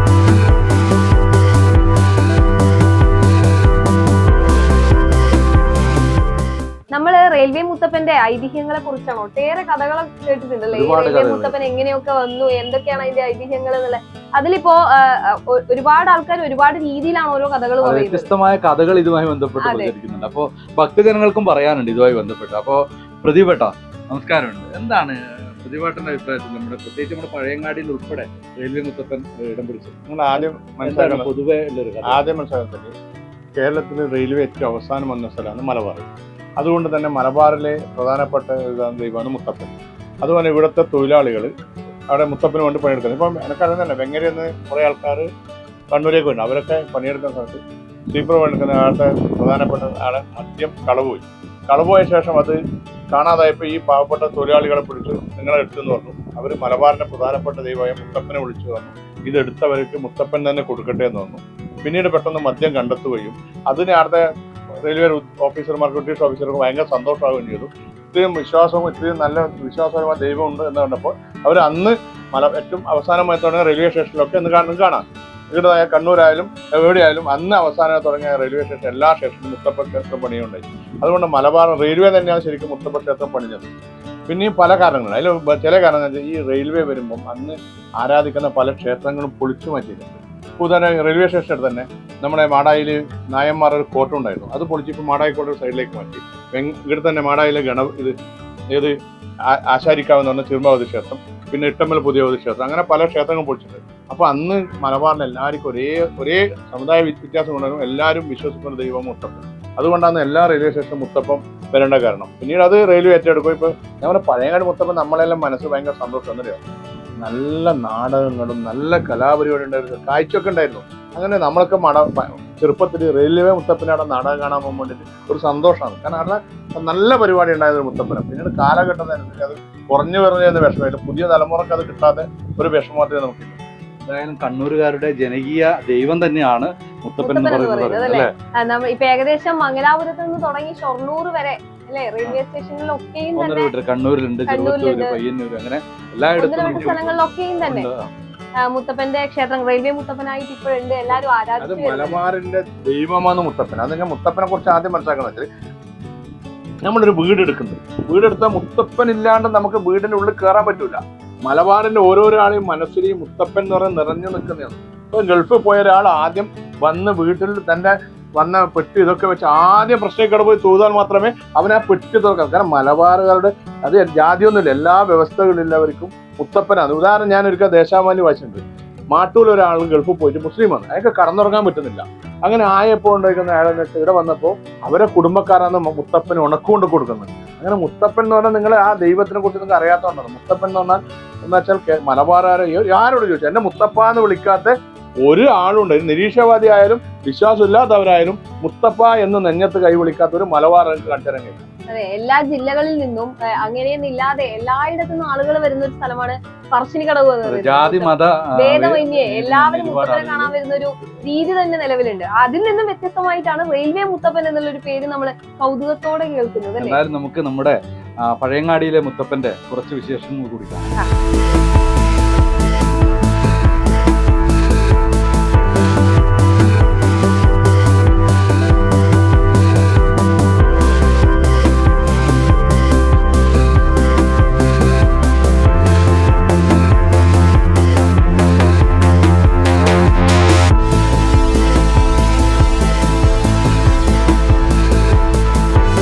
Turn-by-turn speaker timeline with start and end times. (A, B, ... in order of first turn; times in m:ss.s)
0:06.9-0:18.3 A
0:10.7-0:11.6 B
0:17.8-0:32.3 B
0:19.6-0:19.9 A
0:30.1-0:31.3 C
0:32.0-0:32.9 C
0:33.6-0:36.1 C
0:36.6-0:41.5 C
0:42.1-0:45.2 C
0:45.9-0:47.6 C
0:48.1-0:52.6 C
0:53.1-1:04.2 C
1:04.8-1:23.7 C
1:24.3-1:38.1 C
1:39.5-1:56.6 C
1:57.2-2:13.6 C
2:14.0-2:18.3 B
2:17.2-2:23.7 A
2:23.4-2:28.1 B
2:24.5-2:25.2 A
2:26.4-2:27.9 A
2:28.6-2:32.2 A
2:31.6-2:35.5 C
2:36.8-2:58.6 C
2:59.1-3:21.6 C
3:21.9-3:37.0 A
3:27.4-3:30.5 B
3:36.8-3:40.9 B